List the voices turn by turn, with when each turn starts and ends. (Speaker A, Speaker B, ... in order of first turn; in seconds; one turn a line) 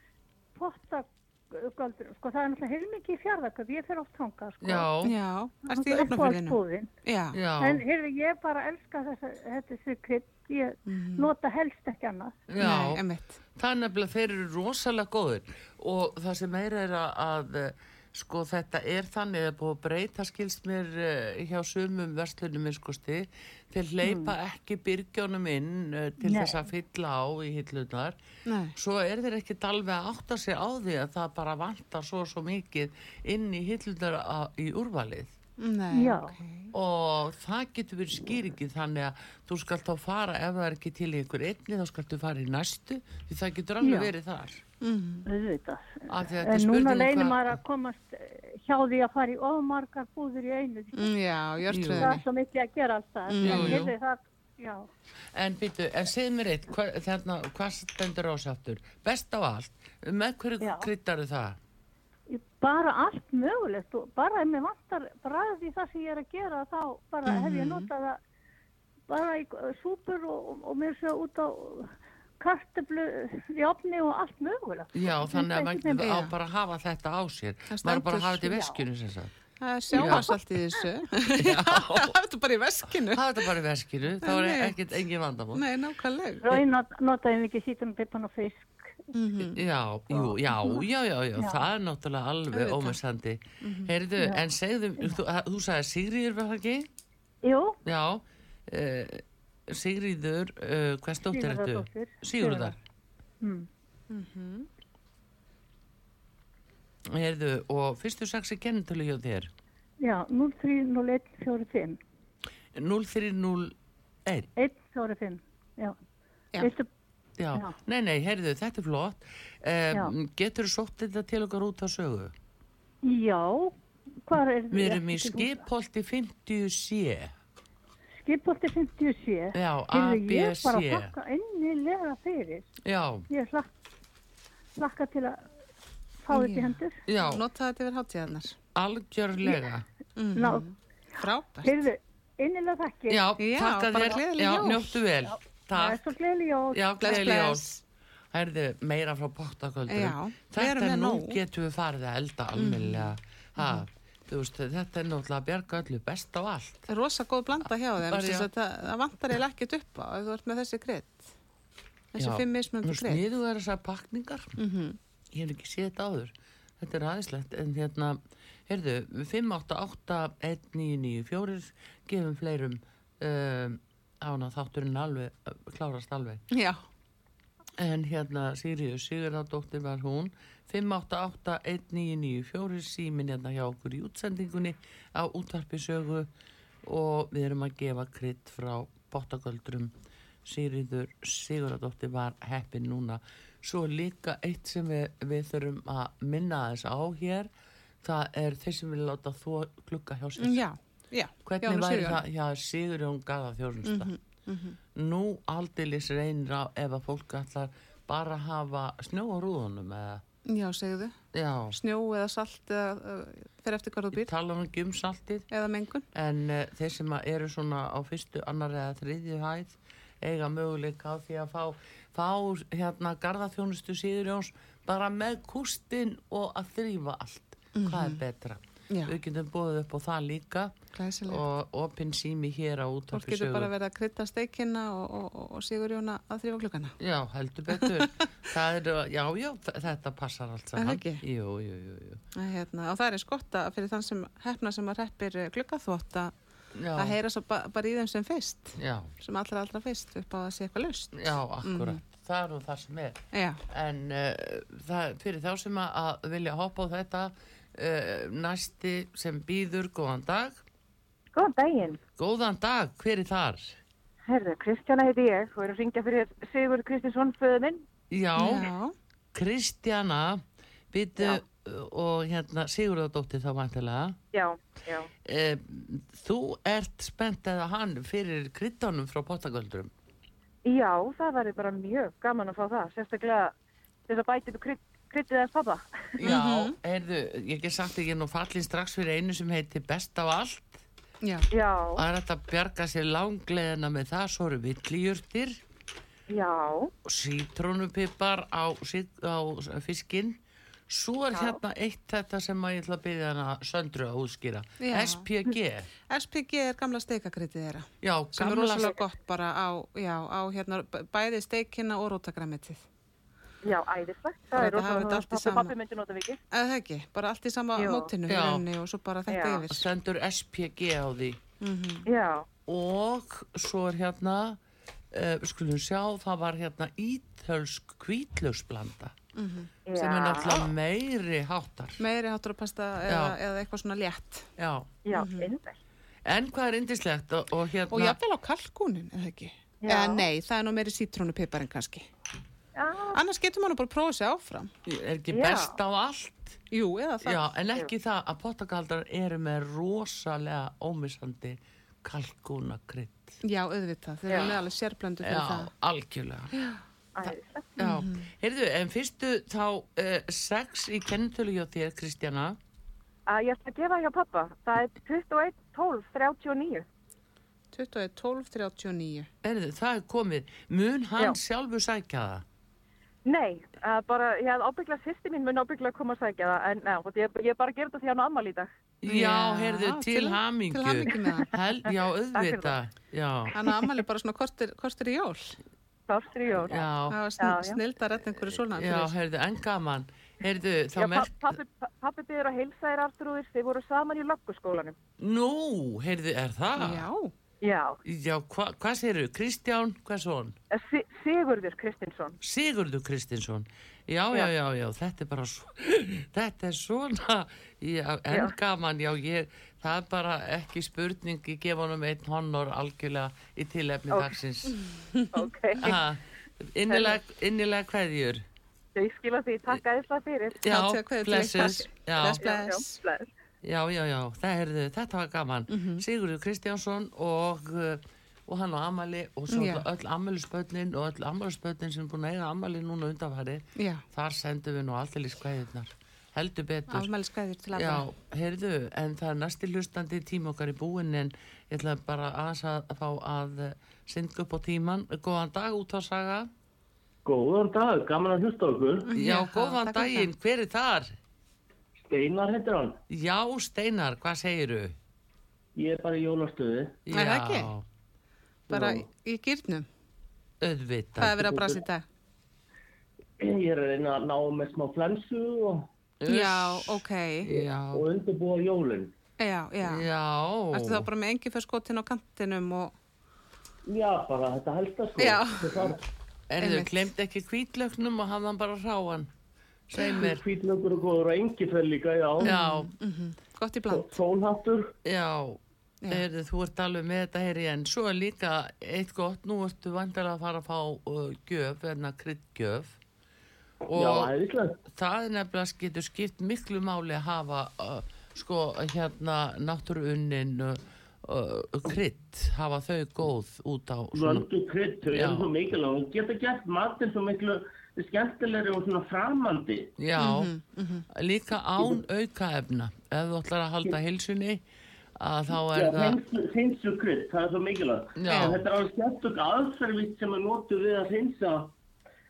Speaker A: 0.6-4.9
Speaker B: 4.6-5.2
Speaker C: 5.0-7.4
Speaker A: 5.7-6.9
Speaker B: 7.3-7.8
Speaker A: 7.6-12.4
Speaker C: 10.9-11.3
Speaker B: 12.5-13.0
Speaker C: 12.6-13.4
Speaker B: 13.6-28.2
Speaker A: 24.1-24.3
Speaker A: 26.2-26.6
Speaker C: 28.5-28.8
Speaker B: 28.8-35.3
Speaker C: 35.6-36.7
Speaker A: 35.9-36.4
Speaker B: 36.7-44.6
Speaker A: 43.8-44.1
Speaker C: 44.8-45.2
Speaker A: 45.3-51.1
Speaker B: 46.1-47.6
Speaker C: 51.0-52.2
Speaker B: 51.7-52.1
Speaker A: 51.7-54.9
Speaker C: 53.3-53.9
Speaker B: 53.4-54.0
Speaker B: 55.3-61.6
Speaker A: 60.6-60.9
Speaker A: 62.3-68.2
Speaker C: 67.3-67.9
Speaker A: 69.1-76.1
Speaker B: 74.9-79.3
Speaker C: 76.0-76.3
Speaker C: 77.7-78.5
Speaker C: 79.6-83.5
Speaker B: 79.9-80.4
Speaker B: 81.4-82.2
Speaker B: 83.1-85.7
Speaker C: 84.2-84.8
Speaker C: 85.5-86.6
Speaker A: 86.4-89.1
Speaker C: 89.1-89.6
Speaker B: 89.5-96.9
Speaker C: 90.1-90.4
Speaker A: 91.4-91.6
Speaker C: 92.5-93.0
Speaker C: 93.6-93.9
Speaker A: 97.4-97.8
Speaker B: 97.8-102.8
Speaker A: 101.3-102.8
Speaker A: 103.4-103.7
Speaker C: 104.1-104.7
Speaker B: 107.1-109.5
Speaker A: 110.0-112.0
Speaker B: 112.7-113.8
Speaker A: 114.6-116.0
Speaker A: 116.6-116.9
Speaker B: 117.4-122.3
Speaker A: 123.0-123.8
Speaker A: 124.3-125.6
Speaker B: 124.7-127.3
Speaker A: 128.2-132.7
Speaker B: 129.5-131.1
Speaker B: 132.8-133.3
Speaker A: 133.3-133.7
Speaker A: 134.8-135.4
Speaker A: 136.2-137.0
Speaker C: 136.3-138.6
Speaker B: 137.1-137.4
Speaker B: 138.8-139.8
Speaker C: 140.2-141.9
Speaker A: 140.3-140.7
Speaker A: 141.2-143.3
Speaker B: 143.1-146.1
Speaker C: 143.4-145.1
Speaker A: 145.7-146.8
Speaker B: 146.7-147.7
Speaker C: 147.0-147.8
Speaker B: 148.3-156.9
Speaker C: 149.9-151.4
Speaker C: 152.6-153.9
Speaker C: 156.9-161.3
Speaker B: 157.6-158.5
Speaker C: 162.1-163.2
Speaker B: 162.2-164.6
Speaker C: 164.6-165.0
Speaker B: 165.3-176.4
Speaker C: 176.5-176.8
Speaker B: 177.8-186.3
Speaker B: 186.8-189.9
Speaker B: 190.4-197.5
Speaker B: 198.0-200.6
Speaker C: 200.4-202.2
Speaker B: 201.5-204.1
Speaker C: 203.8-204.8
Speaker B: 204.9-210.2
Speaker C: 210.5-211.2
Speaker B: 211.3-211.8
Speaker C: 211.7-214.3
Speaker B: 214.1-215.5
Speaker C: 215.5-216.1
Speaker B: 216.1-230.8
Speaker C: 227.8-228.2
Speaker C: 228.9-229.2
Speaker C: 230.9-231.4
Speaker B: 231.3-233.7
Speaker C: 233.1-237.0
Speaker B: 237.0-242.2
Speaker C: 237.7-238.3
Speaker C: 240.8-241.2
Speaker C: 242.3-246.3
Speaker B: 246.8-247.2
Speaker C: 246.9-252.0
Speaker B: 248.8-249.1
Speaker B: 251.2-260.6
Speaker C: 253.3-253.6
Speaker D: 261.3-262.0
Speaker B: 262.2-263.8
Speaker D: 264.3-267.9
Speaker B: 268.1-268.7
Speaker C: 268.4-268.9
Speaker B: 269.3-274.2
Speaker D: 274.3-275.1
Speaker B: 275.2-279.9
Speaker D: 280.6-283.5
Speaker D: 284.1-286.2
Speaker B: 286.2-290.8
Speaker C: 286.2-286.8
Speaker C: 291.2-291.5
Speaker D: 291.5-292.1
Speaker B: 291.9-295.6
Speaker D: 296.3-296.9
Speaker B: 297.1-305.9
Speaker C: 304.8-305.3
Speaker C: 306.1-312.8
Speaker B: 308.0-309.0
Speaker D: 313.6-316.4
Speaker C: 314.6-315.8
Speaker C: 316.5-319.9
Speaker D: 317.8-318.1
Speaker B: 318.3-318.7
Speaker D: 319.3-319.6
Speaker B: 319.7-321.4
Speaker C: 321.6-322.1
Speaker D: 322.1-322.5
Speaker B: 322.7-324.6
Speaker B: 325.1-329.2
Speaker C: 329.4-329.7
Speaker D: 329.9-330.7
Speaker B: 329.9-332.0
Speaker C: 332.0-334.5
Speaker B: 333.1-333.4
Speaker B: 334.6-334.9
Speaker D: 335.1-335.8
Speaker C: 335.1-335.6
Speaker B: 336.2-338.2
Speaker C: 337.9-342.1
Speaker D: 339.8-340.3
Speaker D: 342.8-343.2
Speaker C: 343.1-344.7
Speaker B: 344.9-346.6
Speaker D: 345.3-345.7
Speaker C: 346.7-347.5
Speaker B: 347.2-353.4
Speaker C: 353.4-355.7
Speaker B: 355.2-356.5
Speaker C: 356.5-356.8
Speaker D: 357.2-357.7
Speaker C: 357.8-358.3
Speaker B: 357.8-362.6
Speaker D: 363.3-366.9
Speaker C: 367.7-369.3
Speaker B: 369.4-372.4
Speaker D: 373.2-378.7
Speaker B: 379.0-383.6
Speaker C: 379.1-381.5
Speaker D: 382.3-382.8
Speaker C: 383.5-385.6
Speaker D: 386.1-386.9
Speaker B: 386.5-387.2
Speaker C: 387.1-389.1
Speaker D: 387.4-387.8
Speaker B: 388.7-391.6
Speaker D: 391.0-395.0
Speaker B: 395.2-397.1
Speaker C: 396.8-397.3
Speaker D: 397.6-398.0
Speaker B: 398.0-400.6
Speaker D: 400.7-402.4
Speaker B: 402.4-414.8
Speaker D: 414.1-414.4
Speaker C: 415.1-415.5
Speaker D: 415.3-415.9
Speaker B: 415.8-418.4
Speaker D: 416.9-417.2
Speaker D: 418.9-420.6
Speaker B: 420.6-422.6
Speaker C: 420.7-423.0
Speaker D: 422.4-423.3
Speaker B: 423.6-437.1
Speaker C: 425.7-426.0
Speaker C: 429.5-429.9
Speaker C: 433.8-434.1
Speaker C: 436.9-438.1
Speaker B: 437.7-446.5
Speaker E: 447.2-449.1
Speaker C: 449.1-450.3
Speaker B: 449.1-451.2
Speaker E: 452.0-453.0
Speaker B: 453.1-455.0
Speaker E: 455.8-457.0
Speaker B: 457.1-457.9
Speaker C: 457.1-457.7
Speaker C: 458.7-459.9
Speaker E: 458.7-459.0
Speaker B: 460.6-461.5
Speaker C: 461.2-462.0
Speaker E: 461.4-461.8
Speaker E: 463.4-465.9
Speaker B: 466.2-468.0
Speaker C: 466.3-467.5
Speaker E: 467.9-469.1
Speaker C: 469.4-470.1
Speaker B: 469.8-471.1
Speaker C: 470.7-472.9
Speaker E: 473.9-476.0
Speaker C: 475.2-475.9
Speaker B: 476.5-479.3
Speaker C: 476.6-477.1
Speaker B: 479.9-480.4
Speaker E: 480.2-482.5
Speaker C: 482.4-484.2
Speaker B: 482.4-482.9
Speaker E: 483.9-484.9
Speaker B: 485.0-493.0
Speaker B: 493.8-494.3
Speaker E: 493.9-494.8
Speaker B: 494.9-504.5
Speaker E: 504.1-509.9
Speaker B: 505.1-505.5
Speaker B: 510.0-510.5
Speaker C: 510.2-511.1
Speaker B: 511.1-514.6
Speaker B: 515.2-516.2
Speaker E: 515.6-521.7
Speaker B: 518.2-518.6
Speaker C: 518.3-518.6